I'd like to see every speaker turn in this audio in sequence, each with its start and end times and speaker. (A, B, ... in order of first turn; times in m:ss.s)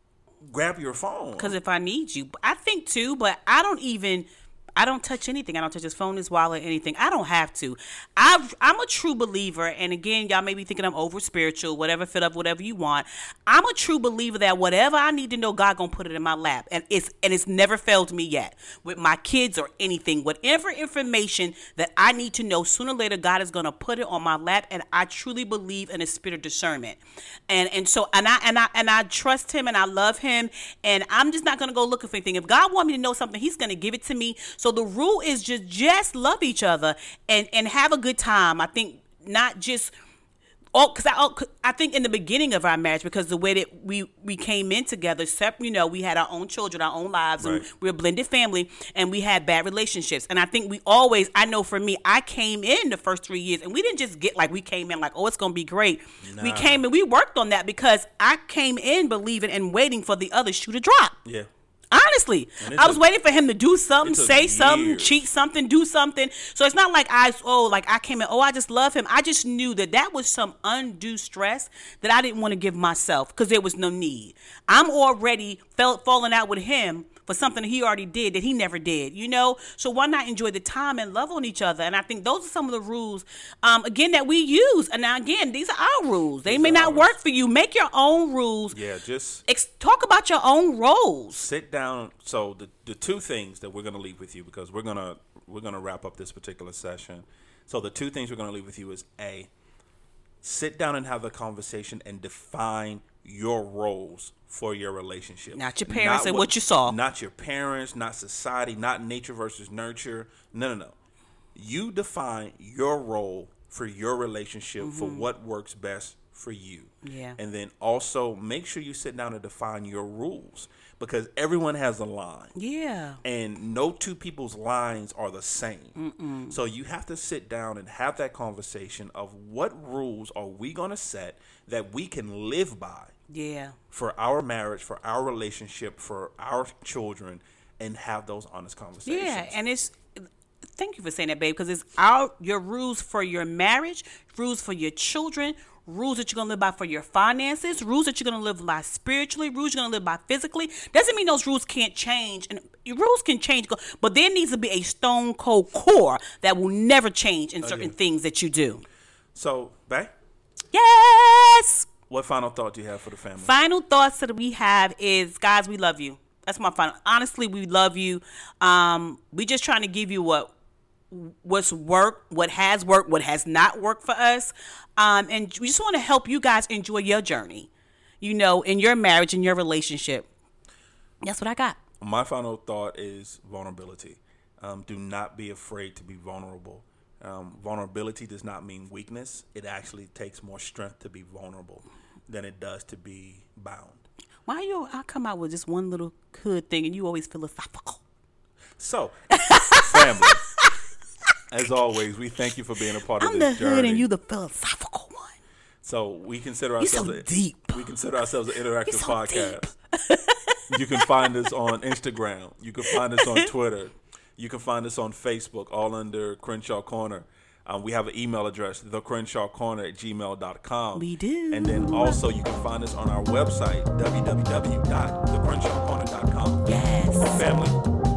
0:00.4-0:01.6 A
0:01.4-0:39.9 B
0:40.8-1:01.2 B
0:47.4-0:47.7 A
0:56.2-0:56.8 A
1:01.9-1:28.8 B
1:02.6-1:03.0 A
1:04.0-1:05.3 A
1:26.5-1:27.2 A
1:28.7-1:29.4 A
1:29.5-1:31.4 B
1:31.3-1:39.5 A
1:40.4-1:51.0 A
1:45.5-1:47.0 B
1:51.6-2:02.6 A
1:54.8-1:55.3 B
1:57.0-1:57.4 B
2:02.6-2:03.2 B
2:03.2-2:06.0 A
2:06.0-2:06.6 B
2:06.5-2:13.1 A
2:13.3-2:13.8 B
2:13.9-2:19.6 A
2:19.1-2:20.0 B
2:20.8-2:38.8 B
2:37.6-2:37.9 A
2:39.4-2:40.1 A
2:40.7-2:41.9 B
2:42.1-2:43.5 A
2:43.4-2:50.5 B
2:51.1-2:57.7 B
2:58.2-3:00.3 B
3:01.2-3:01.8 B
3:02.0-3:14.0 A
3:14.5-3:18.0 B
3:18.8-3:19.2 A
3:19.3-3:20.7 B
3:19.7-3:20.4 A
3:21.5-3:24.1 A
3:23.2-3:25.4 B
3:25.8-3:29.7 A
3:26.8-3:27.9 B
3:28.9-3:31.3 B
3:30.7-3:46.7 A
3:32.9-3:33.5 B
3:41.0-3:42.2 B
3:46.6-3:47.4 B
3:47.2-3:47.8 A